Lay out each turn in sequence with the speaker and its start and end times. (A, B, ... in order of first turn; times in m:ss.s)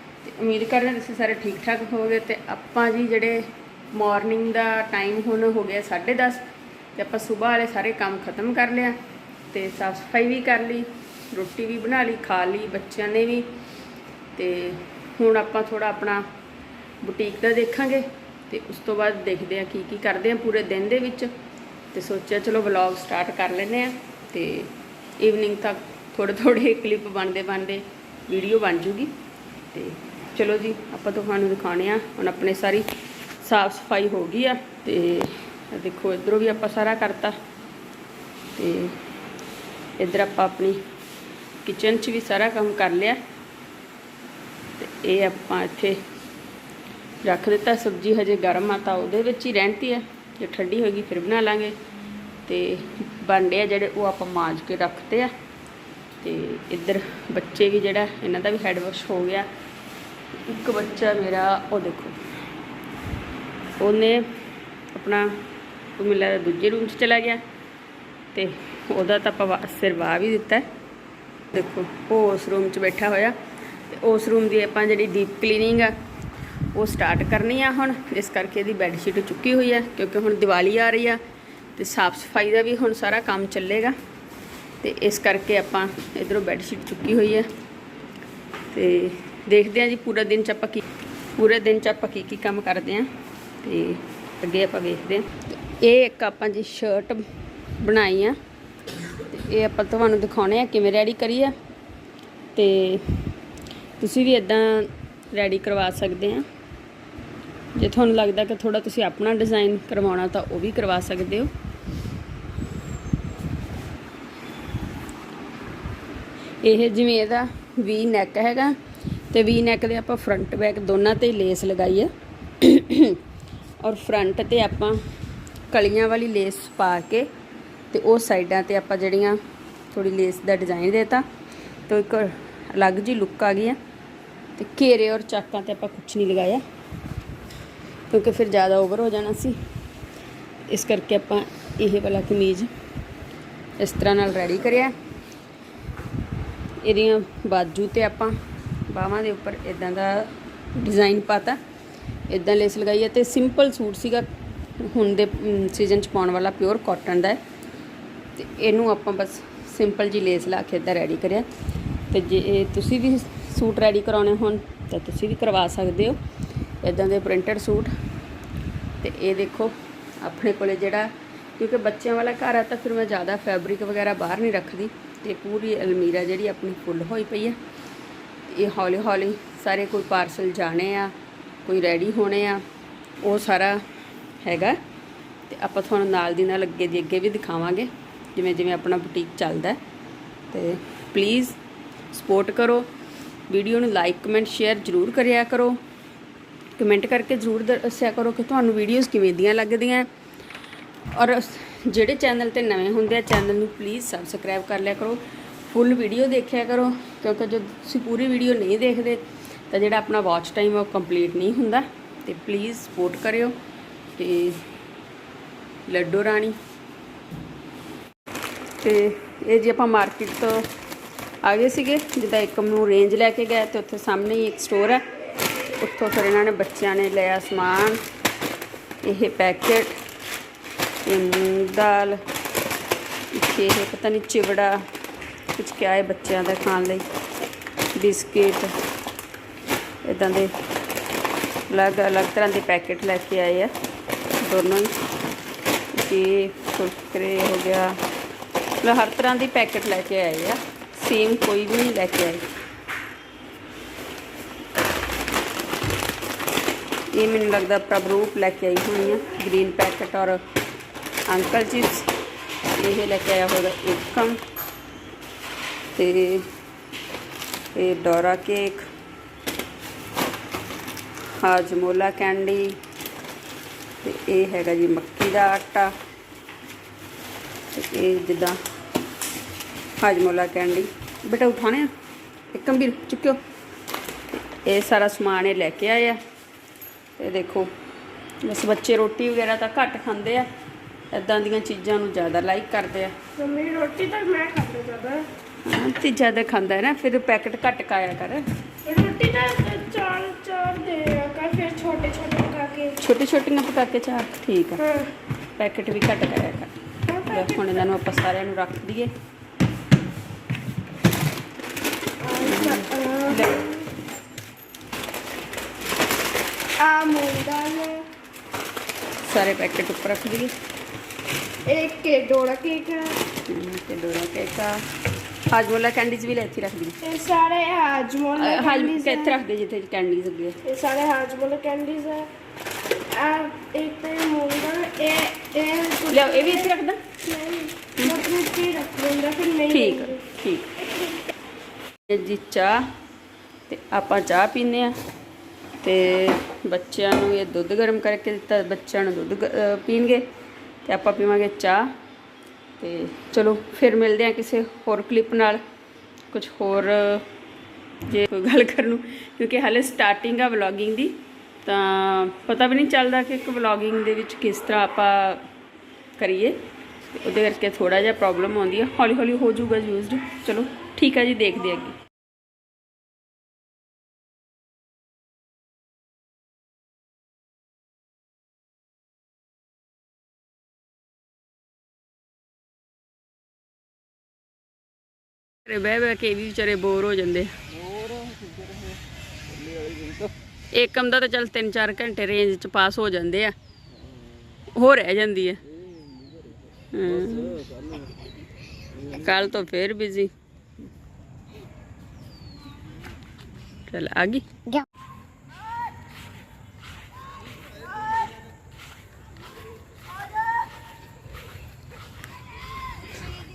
0:00.2-0:09.0 A
0:09.5-0:13.5 A
0:14.4-0:16.2 A
0:17.0-0:21.3 A
0:21.9-0:29.1 A
0:29.7-0:32.9 A
0:33.4-0:37.4 A
0:38.6-0:39.0 A
0:40.0-0:40.8 A
0:41.6-0:43.2 A
0:44.8-0:46.0 A
0:47.2-0:51.7 A
0:52.4-0:55.3 A
0:56.2-0:59.5 A
1:00.4-1:02.2 A
1:03.8-1:04.3 A
1:04.9-1:05.4 A
1:06.0-1:07.4 A
1:08.3-1:10.7 A
1:11.5-1:13.4 A
1:13.9-1:15.9 A
1:16.7-1:21.2 A
1:21.8-1:24.0 A
1:24.8-1:27.5 A
1:28.7-1:30.8 A
1:31.4-1:33.1 A
1:33.6-1:37.3 A
1:37.8-1:38.4 A
1:39.2-1:41.6 A
1:42.5-1:43.3 A
1:44.0-1:46.4 A
1:47.8-1:51.5 A
1:56.6-1:58.8 A
1:59.3-2:03.2 A
2:03.8-2:05.0 A
2:05.7-2:07.3 A
2:07.9-2:09.4 A
2:09.9-2:11.2 A
2:11.9-2:13.8 A
2:14.6-2:16.6 A
2:18.1-2:19.6 A
2:20.7-2:22.7 A
2:23.8-2:24.9 A
2:26.8-2:31.6 A
2:32.3-2:34.3 A
2:34.8-2:37.4 A
2:38.3-2:41.5 A
2:42.1-2:46.2 A
2:46.8-2:47.9 A
2:49.0-2:57.6 A
2:58.5-3:01.1 A
3:01.6-3:02.6 A
3:03.2-3:03.8 A
3:04.4-3:04.8 A
3:05.5-3:09.8 A
3:10.5-3:11.6 A
3:12.1-3:12.9 A
3:13.5-3:15.8 A
3:16.8-3:20.1 A
3:21.1-3:33.5 A
3:34.2-3:34.6 A
3:35.8-3:36.6 A
3:38.8-3:40.7 A
3:41.4-3:45.0 A
3:45.7-3:48.0 A
3:49.0-3:50.0 A
3:51.0-3:52.2 A
3:53.3-3:54.8 A
3:55.5-3:57.0 A
3:57.9-3:58.7 A
4:00.0-4:00.5 A
4:01.7-4:03.7 A
4:04.4-4:05.0 A
4:05.9-4:08.0 A
4:08.8-4:12.5 A
4:17.1-4:20.4 A
4:21.3-4:22.1 A
4:22.7-4:24.4 A
4:25.9-4:26.5 A
4:27.7-4:28.9 A
4:31.4-4:32.8 A
4:34.0-4:35.9 A
4:37.7-4:38.6 A
4:40.0-4:41.9 A
4:42.5-4:43.4 A
4:44.6-4:46.2 A
4:47.2-4:47.7 A
4:48.4-4:50.5 A
4:51.1-4:53.1 A
4:53.4-4:55.3 B
4:55.6-4:58.5 A
4:58.8-5:03.0 B
5:03.0-5:04.8 A
5:04.8-5:05.1 B
5:05.6-5:09.1 A
5:07.1-5:07.8 B
5:12.2-5:13.9 B
5:12.4-5:13.6 A
5:16.8-5:18.1 B
5:19.2-5:20.5 A
5:21.6-5:23.2 B
5:23.4-5:24.8 A
5:25.5-5:27.0 A
5:27.0-5:29.4 B
5:28.4-5:30.6 A
5:30.6-5:32.3 B
5:33.1-5:36.7 B
5:36.1-5:37.1 A
5:37.2-5:40.2 B
5:39.7-5:40.8 A
5:42.1-5:42.9 A
5:43.7-5:44.9 A
5:45.8-5:50.3 A
5:50.8-5:51.9 A
5:52.8-5:55.6 A
5:56.3-5:57.2 A
5:58.0-6:05.5 A
6:06.2-6:06.6 A
6:07.1-6:12.0 A
6:25.6-6:27.6 A
6:30.7-6:33.5 A
6:34.7-6:35.6 A
6:36.9-6:37.6 A
6:39.0-6:40.3 A
6:43.9-6:44.5 A